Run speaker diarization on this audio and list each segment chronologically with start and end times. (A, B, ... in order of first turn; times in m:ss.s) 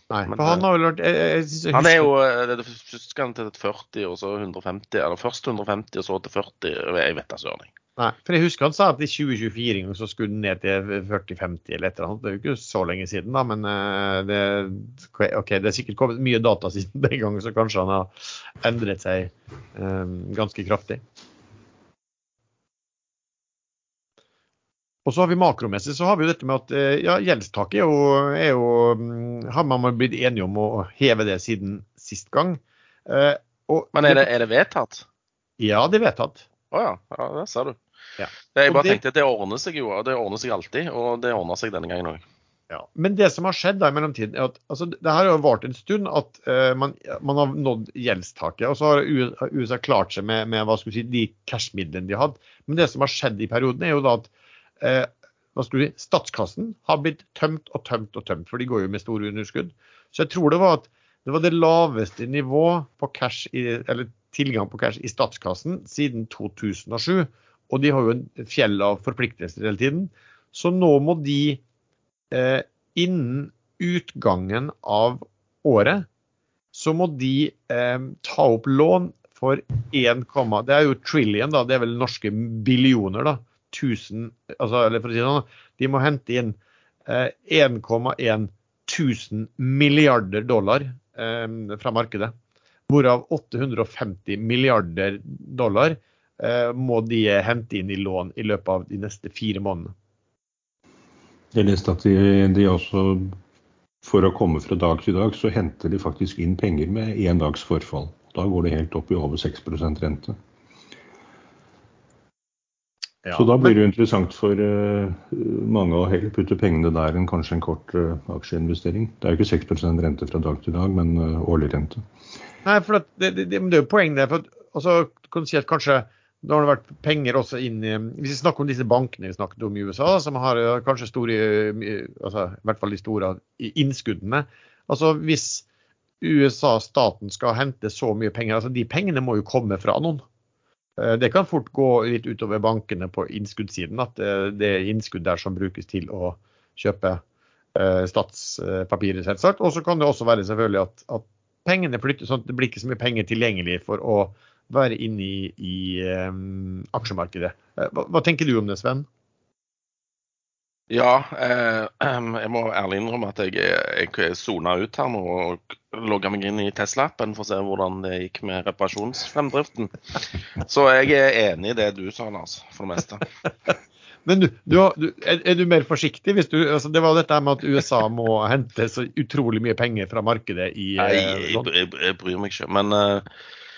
0:00.1-0:02.1 A
0:00.3-0:00.6 B
0:01.7-0:07.7 B
0:08.0-0:21.0 A
0:25.0-0:34.3 A
0:33.9-0:35.1 B
0:35.6-0:36.4 A
0:36.7-0:37.8 B
0:38.2-0:39.0 A
0:38.5-0:42.2 B
0:42.7-0:54.3 A
0:54.8-1:11.6 A
1:12.3-1:16.1 A
1:16.7-1:32.4 A
1:32.9-1:39.9 A
1:41.5-1:43.4 C
1:44.0-1:50.4 C
1:53.2-1:53.7 A
1:53.3-2:02.0 C
2:02.6-2:15.7 A
2:16.2-2:20.2 A
2:21.0-2:27.2 A
2:27.8-2:39.1 A
2:40.9-2:53.3 B
2:54.3-3:01.7 A
3:01.0-3:03.3 B